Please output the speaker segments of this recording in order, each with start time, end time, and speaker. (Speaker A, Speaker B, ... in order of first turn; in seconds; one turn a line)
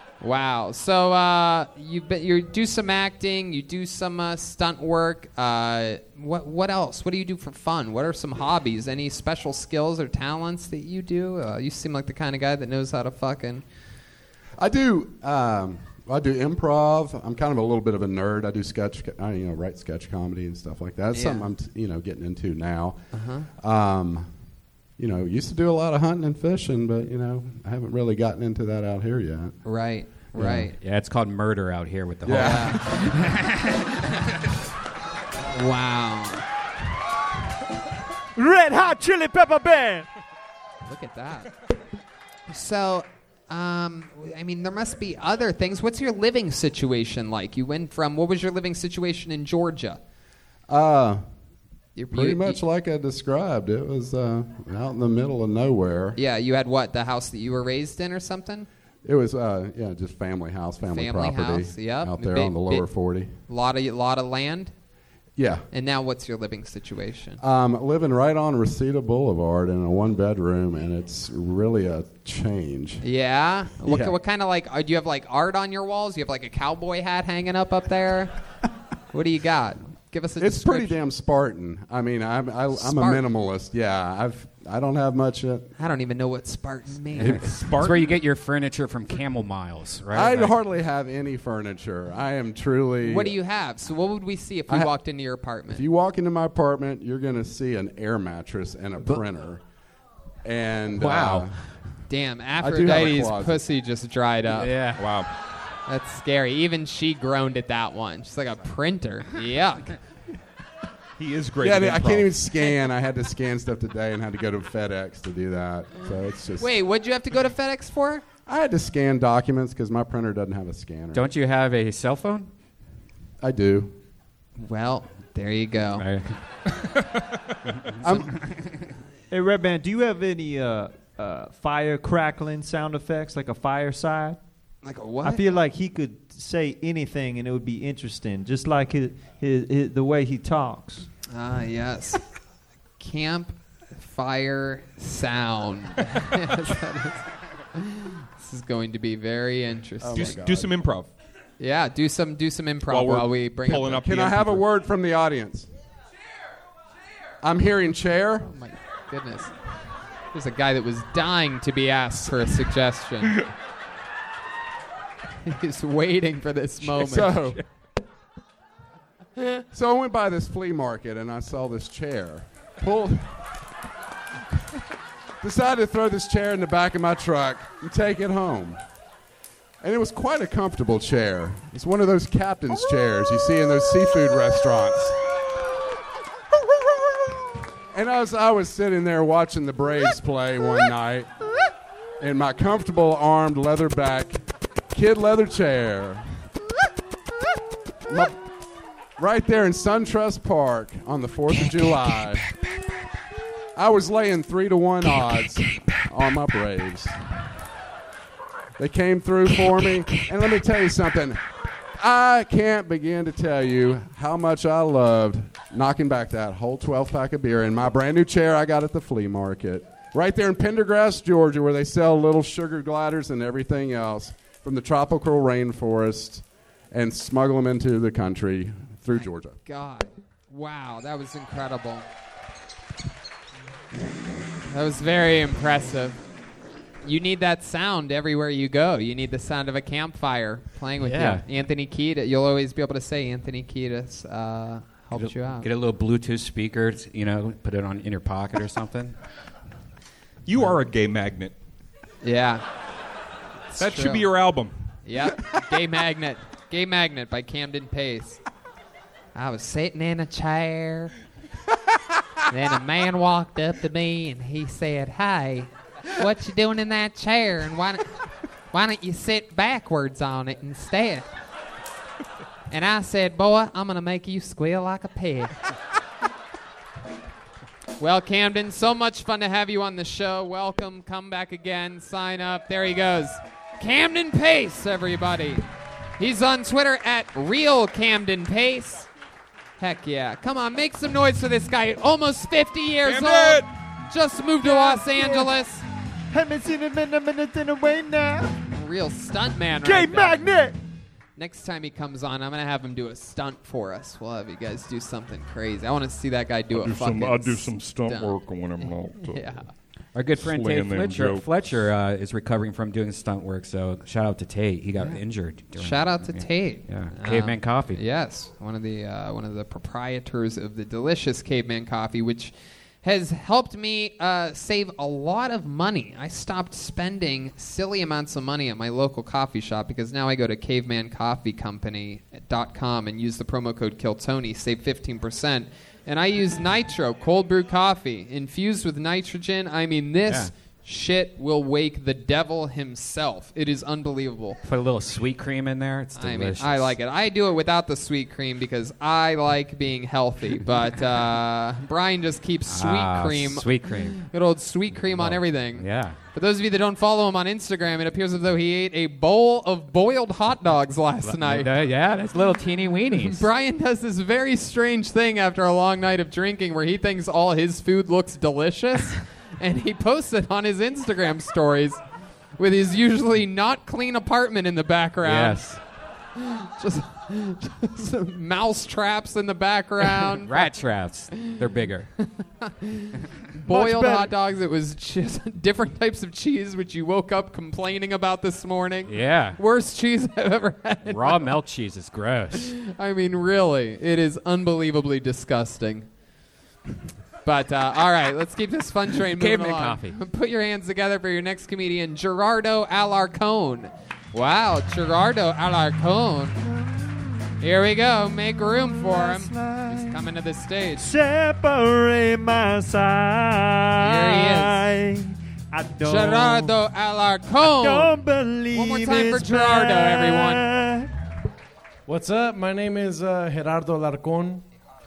Speaker A: 0.2-13.6
Speaker B: 14.6-23.0
Speaker A: 21.1-21.4
Speaker A: 23.1-23.5
Speaker B: 23.6-24.3
Speaker B: 25.0-29.6
Speaker A: 29.6-30.7
Speaker B: 30.4-30.6
Speaker C: 30.4-34.1
Speaker B: 32.2-32.9
Speaker A: 32.3-33.1
Speaker A: 35.5-36.4
Speaker D: 38.4-40.0
Speaker A: 40.8-41.5
Speaker A: 42.5-50.0
Speaker B: 50.7-51.2
Speaker A: 52.0-52.6
Speaker B: 52.1-56.2
Speaker A: 56.2-58.7
Speaker B: 59.0-63.3
Speaker A: 60.9-62.9
Speaker A: 63.5-64.7
Speaker B: 65.3-65.6
Speaker A: 65.7-67.4
Speaker B: 67.4-73.0
Speaker A: 73.0-78.3
Speaker B: 73.8-74.2
Speaker A: 79.1-81.0
Speaker B: 80.4-85.7
Speaker A: 82.7-83.2
Speaker A: 85.8-87.5
Speaker C: 87.2-90.5
Speaker E: 87.2-88.2
Speaker B: 90.1-93.4
Speaker A: 93.0-95.8
Speaker B: 95.7-99.6
Speaker B: 100.4-101.6
Speaker C: 101.0-101.5
Speaker A: 102.1-104.7
Speaker B: 102.6-103.6
Speaker C: 104.5-105.0
Speaker E: 105.0-105.3
Speaker A: 105.9-110.0
Speaker E: 111.2-112.4
Speaker B: 111.6-116.7
Speaker A: 116.6-118.2
Speaker B: 118.5-121.3
Speaker C: 121.1-122.5
Speaker B: 123.4-123.9
Speaker A: 124.6-126.0
Speaker C: 126.0-126.3
Speaker B: 128.0-128.4
Speaker D: 129.3-134.4
Speaker A: 134.8-135.4
Speaker D: 135.2-141.1
Speaker A: 141.3-142.2
Speaker A: 143.0-150.3
Speaker B: 150.0-150.8
Speaker E: 150.1-151.1
Speaker A: 151.6-154.0
Speaker E: 152.9-154.7
Speaker B: 153.8-155.7
Speaker B: 157.4-158.5
Speaker A: 158.4-159.5
Speaker A: 160.3-163.4
Speaker A: 165.4-167.6
Speaker B: 166.8-167.6
Speaker B: 169.7-173.3
Speaker B: 175.4-178.8
Speaker B: 179.8-185.2
Speaker B: 187.9-191.3
Speaker B: 192.2-194.4
Speaker B: 194.9-196.2
Speaker B: 198.1-198.4
Speaker B: 199.2-202.4
Speaker B: 203.8-207.1
Speaker B: 208.8-211.4
Speaker B: 212.0-229.6
Speaker A: 229.1-232.0
Speaker A: 234.7-236.2
Speaker A: 237.0-245.7
Speaker C: 241.0-241.4
Speaker C: 245.2-249.1
Speaker E: 250.4-251.5
Speaker A: 252.2-252.6
Speaker A: 253.7-254.3
Speaker E: 253.8-254.7
Speaker A: 255.1-258.4
Speaker A: 259.3-261.1
Speaker A: 262.5-268.1
Speaker A: 268.7-271.3
Speaker A: 272.7-275.5
Speaker A: 278.0-285.6
Speaker A: 286.2-289.1
Speaker A: 289.8-295.8
Speaker E: 293.0-293.7
Speaker D: 294.6-295.5
Speaker D: 296.3-298.6
Speaker A: 298.7-300.5
Speaker D: 299.8-300.8
Speaker A: 301.4-309.7
Speaker E: 307.1-307.8
Speaker E: 308.3-309.1
Speaker C: 310.1-318.0
Speaker E: 310.8-311.4
Speaker A: 315.7-344.6
Speaker C: 344.6-346.9
Speaker A: 346.1-361.7
Speaker C: 352.7-354.2
Speaker C: 354.9-356.2
Speaker C: 361.2-363.4
Speaker A: 363.2-372.0
Speaker A: 372.6-375.7
Speaker C: 375.2-375.8
Speaker A: 376.4-380.6
Speaker C: 380.2-382.1
Speaker A: 382.2-391.5
Speaker D: 383.6-384.3
Speaker C: 389.1-389.6
Speaker C: 391.1-392.7
Speaker A: 392.6-396.1
Speaker A: 397.4-406.6
Speaker C: 399.4-400.2
Speaker D: 406.6-407.6
Speaker A: 407.6-411.1
Speaker D: 408.5-410.2
Speaker D: 410.9-416.8
Speaker A: 414.0-414.8
Speaker A: 416.0-418.2
Speaker D: 417.6-421.1
Speaker A: 418.7-420.6
Speaker F: 422.1-424.7